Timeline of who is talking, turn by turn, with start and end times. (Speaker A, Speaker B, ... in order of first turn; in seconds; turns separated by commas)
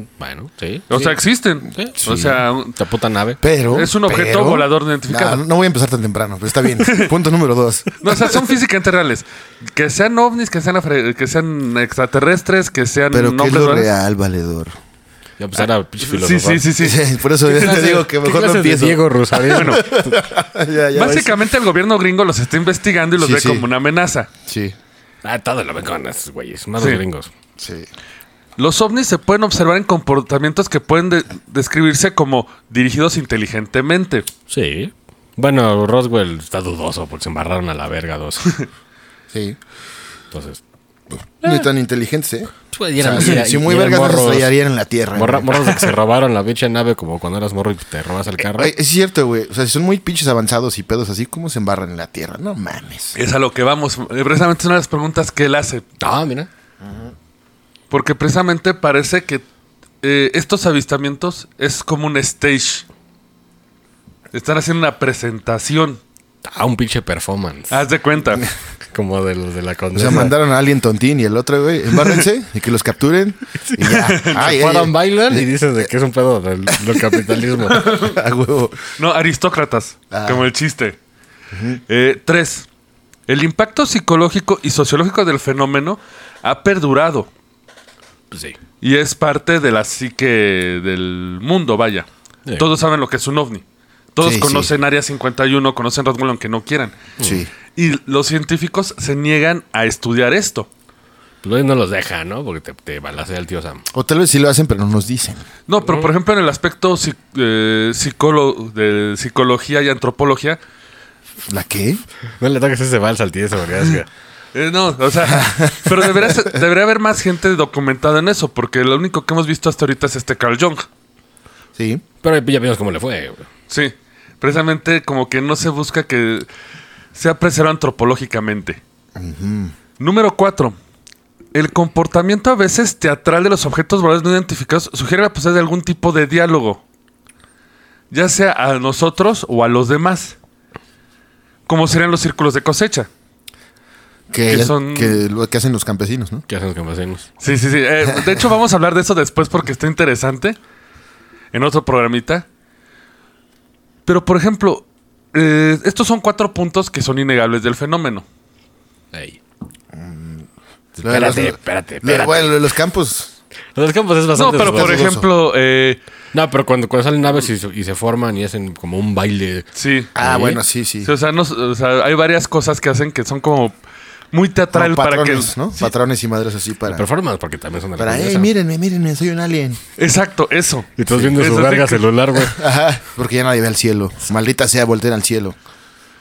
Speaker A: 0.2-1.1, Speaker B: 0.9-2.8, Speaker A: 1.7-3.4, Speaker C: 2.0-2.4, Speaker C: 3.4-8.4, Speaker B: 3.7-5.4, Speaker B: 6.8-7.1, Speaker B: 8.0-13.9, Speaker C: 13.1-14.7, Speaker A: 15.4-16.7, Speaker B: 16.1-18.0, Speaker C: 16.8-21.3, Speaker A: 17.5-20.1, Speaker B: 19.5-19.9, Speaker B: 20.9-24.3, Speaker C: 23.2-23.6, Speaker C: 24.4-24.7, Speaker A: 25.2-27.3, Speaker C: 27.6-27.9, Speaker B: 28.6-34.3, Speaker A: 34.5-38.6, Speaker C: 39.3-39.6, Speaker A: 40.3-40.6, Speaker C: 41.4-45.5, Speaker A: 42.7-44.5, Speaker A: 45.1-48.7, Speaker C: 48.4-53.2, Speaker B: 53.1-55.8, Speaker A: 56.0-56.5, Speaker C: 56.8-57.1, Speaker B: 57.9-59.4, Speaker B: 60.0-62.8, Speaker B: 64.3-66.0, Speaker A: 66.4-67.8, Speaker B: 67.7-68.5, Speaker A: 68.9-70.3, Speaker C: 69.9-75.8, Speaker A: 73.7-77.9, Speaker B: 74.0-74.3, Speaker C: 76.7-78.9, Speaker B: 77.7-78.2, Speaker B: 79.0-81.0, Speaker C: 80.1-80.5, Speaker C: 81.5-81.8, Speaker B: 81.9-82.7, Speaker B: 83.3-87.3, Speaker A: 88.3-88.6, Speaker B: 88.8-93.6, Speaker B: 94.1-97.0, Speaker C: 94.2-94.7, Speaker A: 97.2-97.4, Speaker C: 97.2-97.5, Speaker B: 97.7-100.7, Speaker A: 101.4-103.8, Speaker C: 103.9-105.4, Speaker B: 105.7-110.6, Speaker A: 105.8-106.1, Speaker C: 111.5-112.0, Speaker A: 112.4-114.1, Speaker B: 114.5-120.9, Speaker C: 115.3-116.4, Speaker C: 121.8-122.0, Speaker A: 122.2-123.5, Speaker B: 123.7-126.5, Speaker B: 127.1-128.8, Speaker C: 129.2-129.7, Speaker B: 130.0-130.8, Speaker B: 131.5-136.8, Speaker B: 138.1-140.3, Speaker B: 141.7-143.1, Speaker C: 144.3-146.4, Speaker B: 144.5-145.2, Speaker A: 146.5-147.2, Speaker B: 147.4-150.6, Speaker B: 151.5-152.4, Speaker B: 154.1-158.2, Speaker A: 159.1-159.4, Speaker C: 159.9-160.5, Speaker A: 160.9-162.6, Speaker C: 161.0-163.3, Speaker A: 163.7-165.1, Speaker B: 164.3-166.0, Speaker C: 164.6-165.3, Speaker A: 166.3-170.6, Speaker B: 169.7-170.1, Speaker C: 170.2-171.1, Speaker B: 171.0-173.7, Speaker B: 174.3-175.9, Speaker C: 174.7-177.0, Speaker A: 176.9-178.5, Speaker C: 178.0-179.8, Speaker B: 180.0-182.0, Speaker A: 181.0-182.6, Speaker C: 182.4-185.6